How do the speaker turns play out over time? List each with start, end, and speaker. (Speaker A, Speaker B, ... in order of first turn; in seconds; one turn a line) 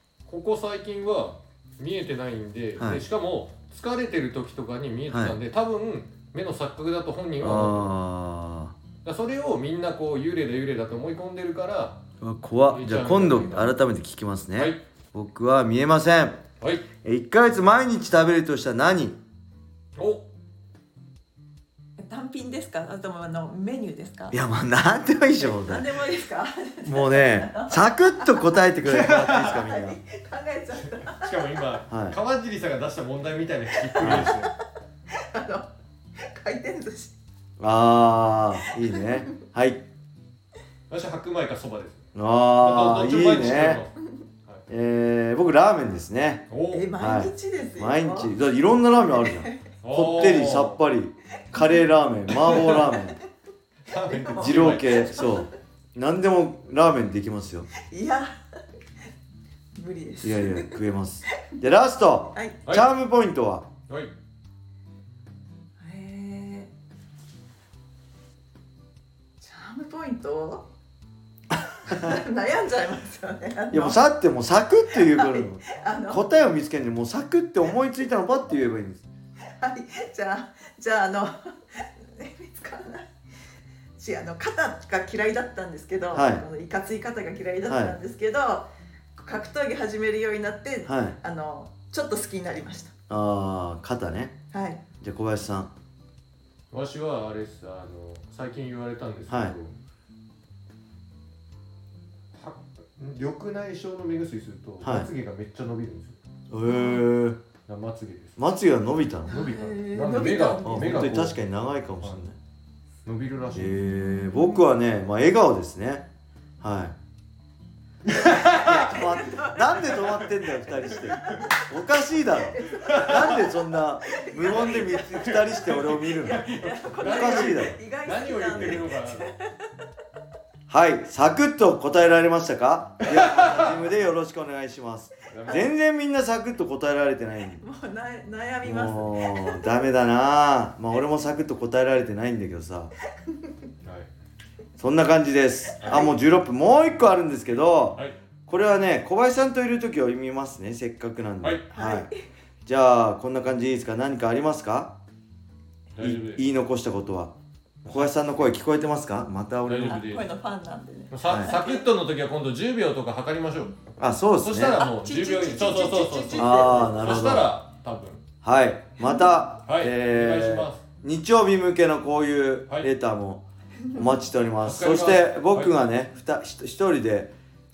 Speaker A: 0.3-7.9
Speaker B: 2.8-3.0
Speaker B: 5.1-5.4
Speaker B: 7.4-8.7
Speaker A: 9.0-12.0
Speaker B: 12.2-16.4
Speaker A: 12.7-13.7
Speaker A: 16.6-16.9
Speaker B: 17.0-19.2
Speaker A: 19.9-20.3
Speaker C: 22.0-24.4
Speaker B: 24.3-25.9
Speaker C: 25.4-28.6
Speaker B: 26.8-30.0
Speaker A: 28.8-29.7
Speaker C: 29.4-31.4
Speaker A: 30.7-34.5
Speaker B: 31.9-32.2
Speaker C: 33.9-34.5
Speaker B: 34.0-34.4
Speaker C: 35.1-37.1
Speaker B: 37.6-39.8
Speaker C: 38.8-39.2
Speaker A: 40.9-42.0
Speaker B: 42.1-43.8
Speaker A: 42.6-43.9
Speaker B: 44.7-53.2
Speaker A: 46.5-46.9
Speaker C: 46.7-48.3
Speaker C: 49.0-49.7
Speaker A: 49.8-50.8
Speaker A: 52.3-52.9
Speaker C: 52.7-53.0
Speaker A: 53.9-55.0
Speaker C: 54.1-55.5
Speaker B: 54.3-57.7
Speaker C: 57.8-58.3
Speaker C: 59.7-60.8
Speaker B: 60.2-63.7
Speaker C: 65.8-66.7
Speaker C: 69.4-70.7
Speaker C: 71.8-74.0
Speaker B: 73.7-79.0
Speaker C: 74.9-76.2
Speaker C: 79.5-83.1
Speaker C: 84.0-92.9
Speaker B: 86.1-86.4
Speaker B: 87.7-88.0
Speaker B: 90.8-91.2
Speaker B: 93.1-94.3
Speaker C: 94.5-94.8
Speaker B: 95.0-95.7
Speaker A: 96.7-99.7
Speaker B: 99.3-99.5
Speaker A: 102.3-106.2
Speaker B: 104.8-105.1
Speaker B: 106.5-107.4
Speaker C: 106.6-107.0
Speaker A: 107.7-108.4
Speaker B: 108.4-109.4
Speaker A: 109.3-111.4
Speaker C: 109.3-111.0
Speaker B: 110.6-112.4
Speaker A: 113.0-113.8
Speaker C: 113.5-114.6
Speaker B: 113.5-116.1
Speaker B: 116.6-116.9
Speaker A: 118.0-118.8
Speaker B: 118.4-126.5
Speaker C: 118.6-120.0
Speaker A: 119.9-120.2
Speaker A: 121.0-121.5
Speaker C: 121.2-121.6
Speaker C: 122.6-123.5
Speaker A: 122.7-123.4
Speaker C: 124.0-129.7
Speaker A: 124.5-129.3
Speaker B: 127.0-127.8
Speaker B: 128.6-128.8
Speaker B: 130.7-137.6
Speaker A: 133.0-133.7
Speaker A: 135.3-135.7
Speaker C: 135.5-135.7
Speaker C: 137.6-139.7
Speaker B: 138.6-142.9
Speaker A: 143.8-144.1
Speaker B: 144.8-152.1
Speaker A: 145.8-146.1
Speaker C: 151.7-152.1
Speaker B: 152.7-154.9
Speaker A: 155.9-156.4
Speaker B: 156.0-157.3
Speaker A: 157.8-158.6
Speaker B: 157.9-160.0
Speaker A: 159.7-160.3
Speaker C: 159.9-161.8
Speaker A: 161.1-168.2
Speaker B: 161.2-161.6
Speaker B: 164.0-164.8
Speaker C: 164.7-167.1
Speaker B: 166.3-167.5
Speaker B: 168.4-177.3
Speaker C: 169.0-169.3
Speaker A: 169.7-170.8
Speaker A: 174.6-175.7